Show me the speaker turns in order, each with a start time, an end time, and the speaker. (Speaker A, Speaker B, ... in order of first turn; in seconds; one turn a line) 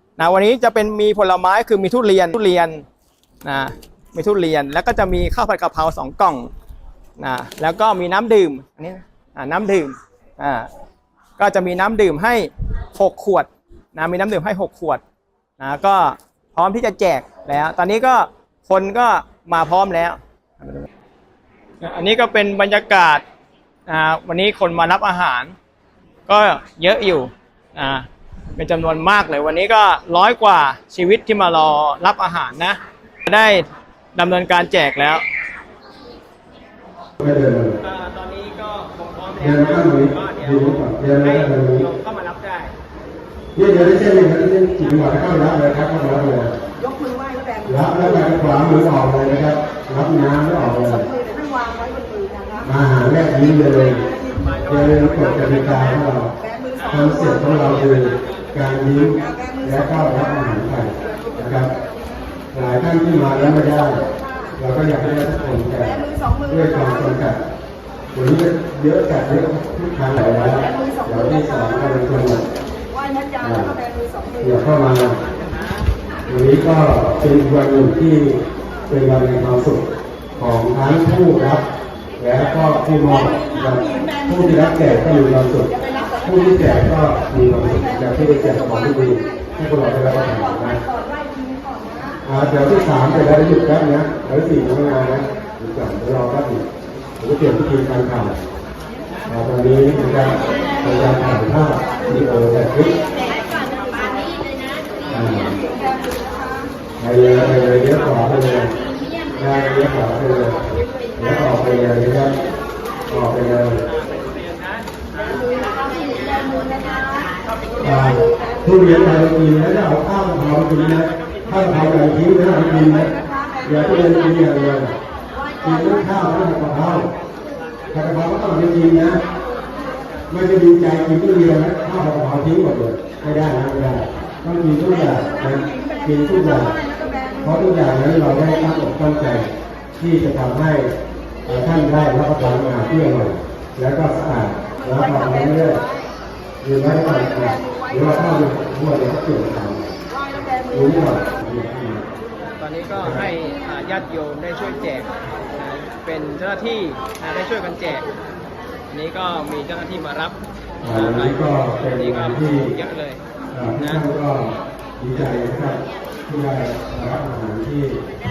Speaker A: 0.2-2.9
Speaker A: 3.4-6.5
Speaker A: 7.2-10.7
Speaker A: 11.4-15.0
Speaker A: 15.6-20.9
Speaker A: 21.8-23.2
Speaker A: 23.9-25.6
Speaker A: 26.3-35.2
Speaker B: 37.2-37.8
Speaker A: 37.8-42.7
Speaker B: 39.4-41.9
Speaker B: 43.5-46.6
Speaker C: 46.9-47.6
Speaker B: 47.6-51.1
Speaker C: 51.2-52.6
Speaker B: 52.6-61.7
Speaker A: 54.4-54.8
Speaker A: 57.9-58.3
Speaker B: 62.5-67.4
Speaker B: 68.1-72.5
Speaker B: 73.4-73.8
Speaker B: 74.4-75.2
Speaker B: 76.3-79.8
Speaker B: 80.4-81.6
Speaker B: 82.2-90.8
Speaker C: 91.0-92.2
Speaker B: 92.2-96.7
Speaker B: 97.2-98.4
Speaker B: 99.3-103.1
Speaker B: 105.0-105.7
Speaker C: 105.7-106.6
Speaker B: 107.0-108.8
Speaker B: 109.3-112.3
Speaker B: 113.1-113.8
Speaker A: 113.9-116.5
Speaker C: 115.6-117.3
Speaker B: 117.8-125.0
Speaker B: 125.6-127.1
Speaker B: 127.9-129.2
Speaker B: 130.3-136.8
Speaker B: 137.4-140.9
Speaker B: 141.5-145.8
Speaker B: 146.6-150.0
Speaker B: 150.6-152.1
Speaker A: 152.6-158.1
Speaker B: 153.0-153.3
Speaker A: 158.9-163.2
Speaker B: 160.8-162.7
Speaker B: 163.5-168.0
Speaker A: 163.8-164.0